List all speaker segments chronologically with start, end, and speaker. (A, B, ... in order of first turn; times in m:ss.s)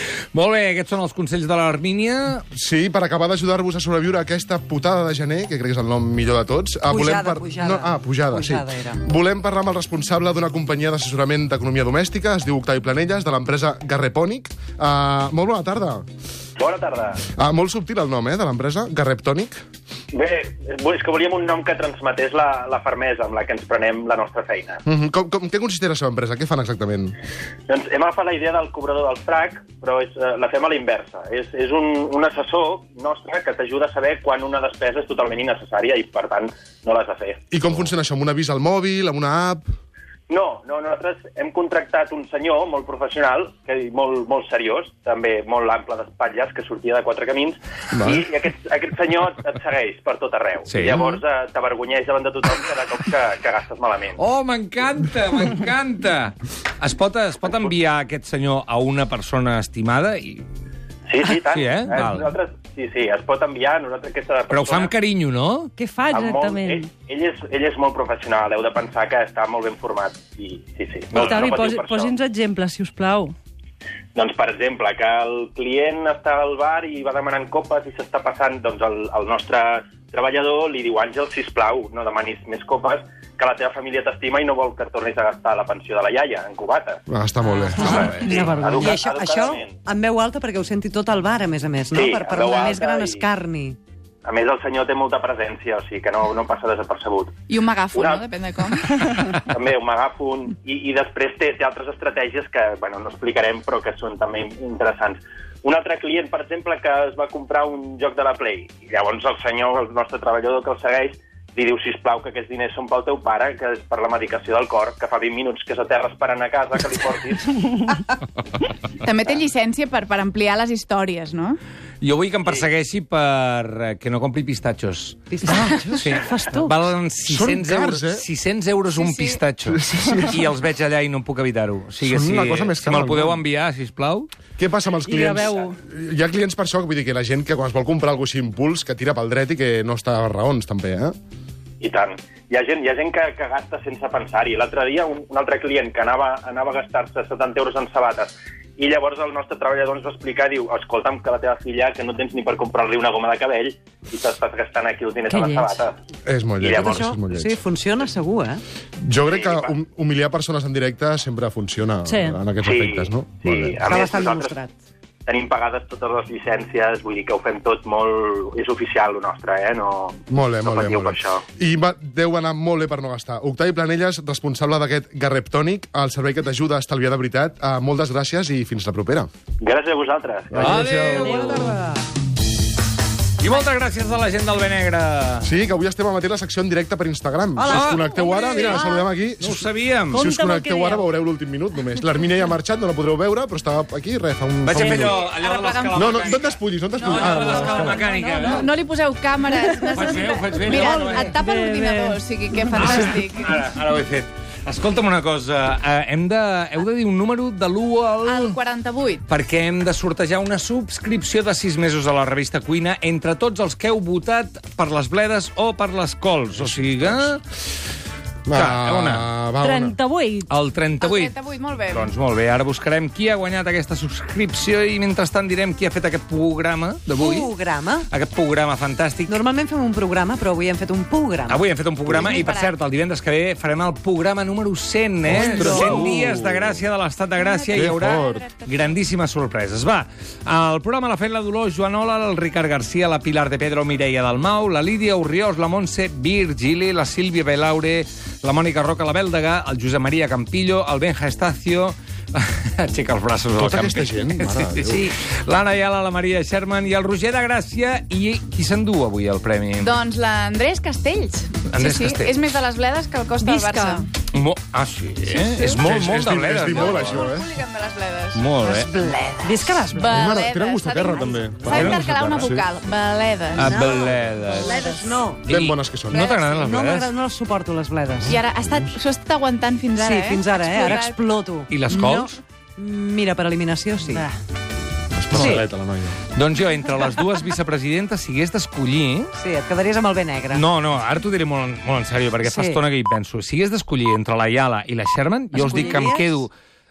0:00.3-0:02.4 A
0:02.5-0:16.0 B
0:06.9-0:09.0 C
0:16.6-0:17.2 D
0:17.3-0:19.6 B
0:20.1-0:24.8 D
0:24.8-0:27.1 B
0:27.7-0:37.4 D
0:37.5-0:39.7 B
0:40.3-0:54.2 D
0:47.9-0:48.2 B
0:50.7-0:51.1 A
0:54.2-1:00.4 A
1:01.1-1:04.9 D
1:01.3-1:02.3 A
1:04.5-1:05.7 A
1:05.8-1:06.9 E
1:06.1-1:12.1 D
1:11.1-1:13.3 E
1:14.2-1:27.0 D
1:27.1-1:28.1 B
1:27.4-1:33.8 C
1:27.7-1:28.4 A
1:27.8-1:29.7 D
1:31.9-1:33.3 D
1:34.2-1:57.6 D
1:37.5-1:38.8 F
1:59.0-2:01.6 F
2:02.0-2:14.3 A
2:05.3-2:06.8 C
2:07.2-2:08.2 B
2:08.9-2:09.4 F
2:09.7-2:10.4 B
2:12.0-2:13.4 B
2:14.6-2:21.1 B
2:15.0-2:15.8 E
2:21.8-2:36.0 D
2:35.3-2:35.7 E
2:36.3-2:37.6 B
2:36.6-2:37.1 D
2:36.8-2:38.6 C
2:39.0-2:43.8 B
2:39.3-2:39.7 D
2:42.0-2:42.4 E
2:42.6-2:44.6 D
2:43.8-2:44.8 C
2:45.3-2:51.4 D
2:50.3-2:59.3 B
2:59.6-3:00.7 D
3:00.5-3:01.7 B
3:00.6-3:01.8 A
3:01.1-3:01.8 E
3:03.4-3:05.5 A
3:05.4-3:15.3 B
3:07.6-3:09.0 C
3:07.7-3:08.8 A
3:08.7-3:09.0 E
3:09.4-3:10.2 A
3:10.1-3:11.1 E
3:14.6-3:18.7 A
3:14.8-3:16.4 F
3:15.9-3:18.1 B
3:16.9-3:23.6 F
3:19.7-3:21.4 A
3:20.7-3:23.2 E
3:22.7-3:28.6 A
3:28.2-3:29.2 F
3:29.3-3:37.4 A
3:38.4-3:40.0 B
3:38.5-3:39.3 A
3:39.6-3:40.5 E
3:40.5-3:41.4 A
3:41.0-3:42.1 F
3:41.9-3:47.5 A
3:47.2-3:48.1 C
3:48.1-3:49.4 A
3:49.3-3:52.5 C
3:51.4-4:19.9 A
3:52.2-3:52.7 F
3:55.3-3:56.8 B
3:55.3-3:56.3 C
3:57.4-3:58.9 F
3:57.7-3:58.5 B
4:13.6-4:15.1 B
4:19.8-4:24.1 F
4:21.7-4:22.4 A
4:23.4-4:24.1 E
4:24.3-4:27.3 A
4:25.7-4:27.5 B
4:26.7-4:28.4 F
4:28.3-4:28.9 A
4:28.6-4:29.9 C
4:29.4-4:30.2 E
4:29.9-4:34.1 F
4:30.0-4:32.7 B
4:31.6-4:32.6 A
4:33.5-4:37.1 A
4:33.6-4:35.5 C
4:35.5-4:36.3 B
4:36.1-4:38.3 C
4:38.3-4:41.2 F
4:38.6-4:38.9 B
4:40.0-4:44.3 C
4:40.7-4:41.1 A
4:41.7-4:42.4 A
4:45.1-4:46.2 B
4:45.3-4:45.6 C
4:46.3-4:49.3 A
4:49.3-4:50.6 C
4:50.5-4:56.5 A
4:52.4-4:52.8 C
4:55.5-4:56.4 C